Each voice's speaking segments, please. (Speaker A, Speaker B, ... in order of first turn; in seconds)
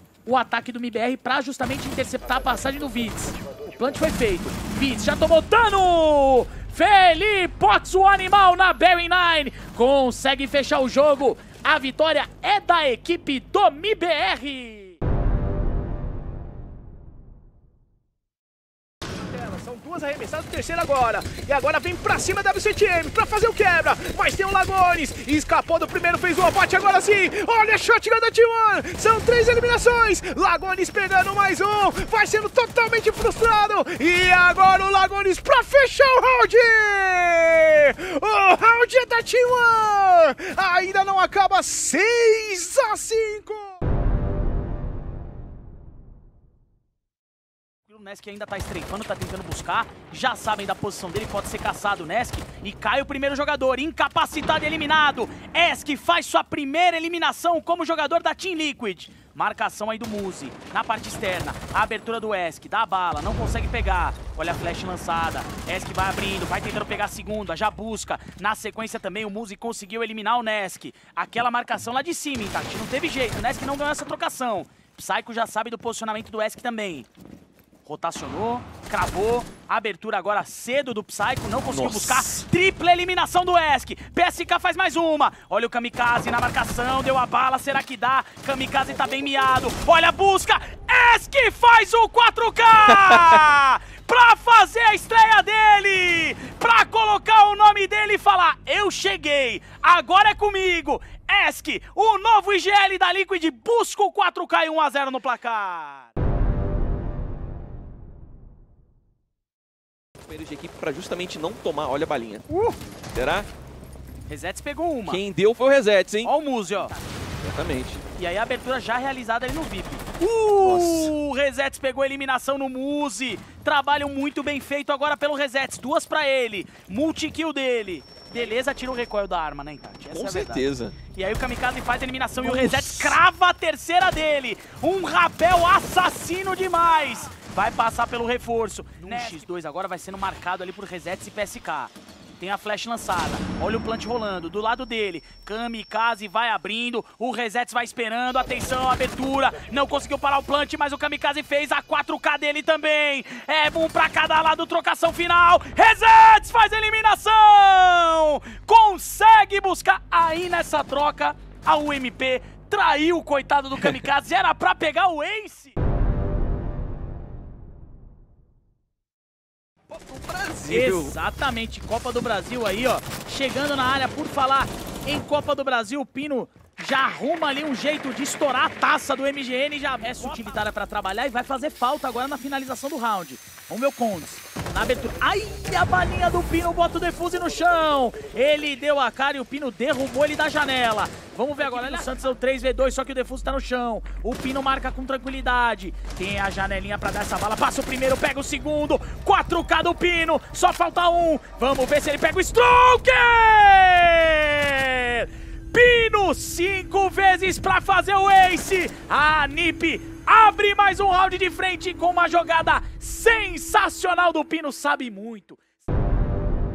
Speaker A: 0.2-15.0, 47.9-77.1, 77.8-106.1, 114.3-115.2, 116.2-117.0, 118.1-165.7, 170.7-215.6
Speaker B: 19.3-43.8
Speaker C: 81.6-82.5, 110.2-112.5, 113.1-113.5, 115.0-116.3, 117.4-118.0, 120.6-121.1, 130.1-131.0, 132.4-133.2, 169.9-171.2